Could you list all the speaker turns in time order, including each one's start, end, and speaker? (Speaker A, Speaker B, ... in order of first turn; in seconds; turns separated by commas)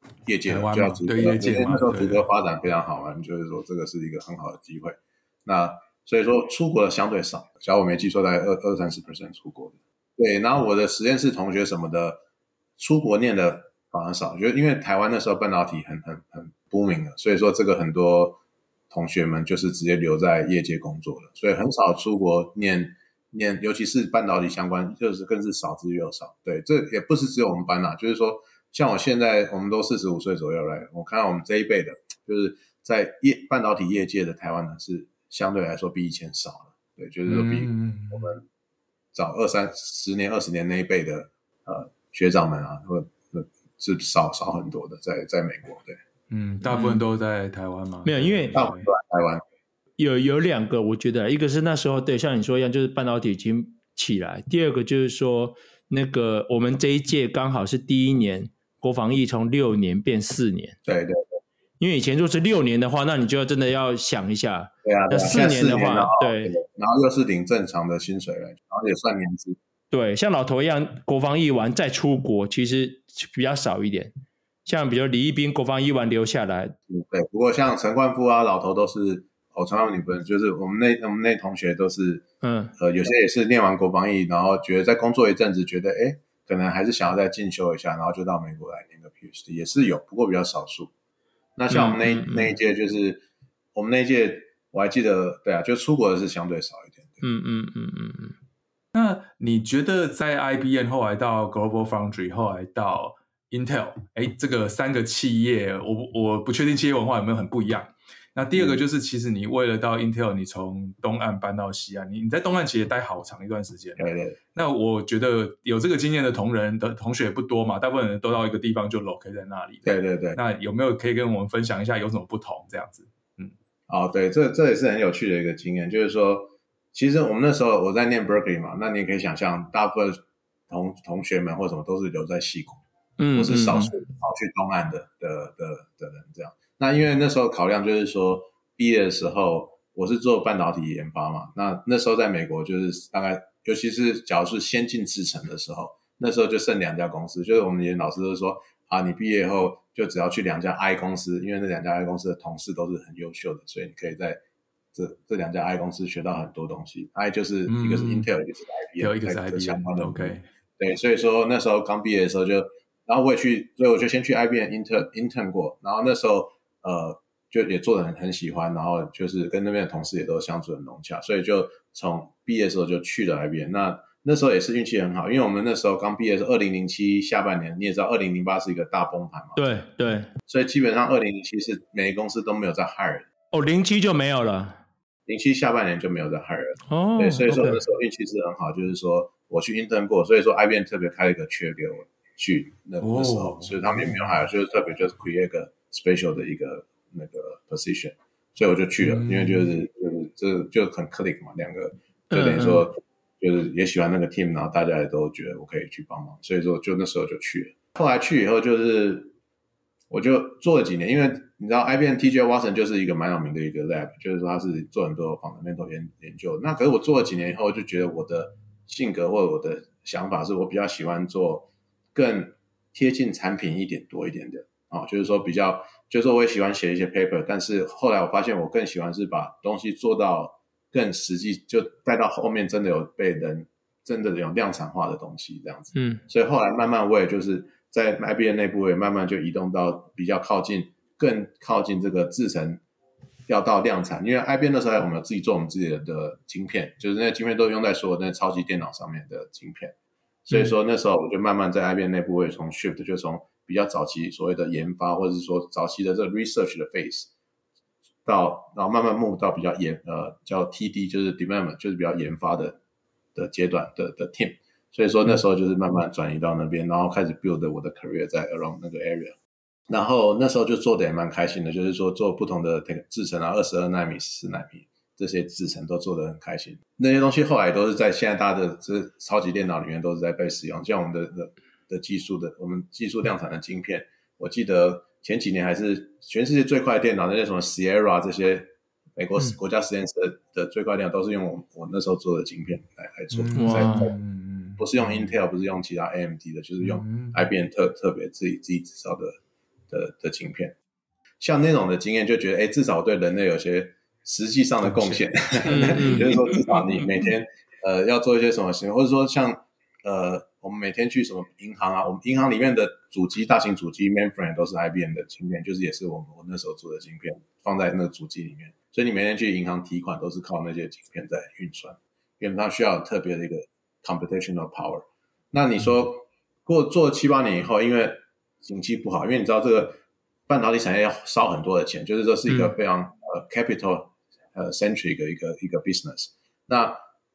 Speaker A: 0.3-12.2, Speaker B: 0.5-2.3, Speaker A: 12.8-38.5, Speaker B: 37.3-38.3, Speaker A: 39.1-46.0, Speaker B: 46.3-48.9, Speaker C: 46.6-47.0, Speaker C: 48.0-48.5, Speaker A: 48.5-49.4, Speaker C: 50.0-60.8, Speaker A: 60.9-61.4, Speaker C: 61.8-66.6, Speaker A: 64.8-69.6, Speaker C: 69.9-74.1, Speaker C: 74.7-76.8, Speaker A: 76.9-82.2, Speaker C: 82.4-82.7, Speaker A: 82.8-90.9, Speaker A: 91.6-93.2, Speaker C: 91.7-92.5, Speaker A: 93.8-97.2, Speaker C: 97.2-98.3, Speaker B: 98.9-123.5, Speaker A: 108.5-108.8, Speaker A: 114.0-114.4, Speaker A: 119.8-120.4, Speaker A: 123.9-132.8, Speaker C: 133.2-133.9, Speaker A: 133.3-154.4, Speaker A: 154.9-179.7, Speaker B: 157.7-158.3, Speaker B: 159.0-160.4, Speaker C: 179.6-180.3, Speaker A: 180.5-183.3, Speaker C: 183.5-184.8, Speaker A: 185.3-209.3, Speaker C: 186.9-187.8, Speaker B: 193.0-194.3, Speaker B: 199.0-199.7, Speaker C: 202.3-202.9, Speaker A: 210.1-242.8, Speaker C: 235.9-236.2, Speaker A: 243.5-249.9, Speaker A: 250.5-257.3, Speaker A: 258.2-262.8, Speaker A: 263.4-269.4, Speaker A: 269.9-294.1, Speaker B: 293.3-295.4, Speaker C: 293.6-294.1, Speaker A: 294.8-299.4, Speaker B: 296.8-297.4, Speaker A: 299.9-300.8, Speaker A: 301.4-337.0, Speaker B: 304.8-307.1, Speaker C: 305.7-306.4, Speaker C: 332.5-332.7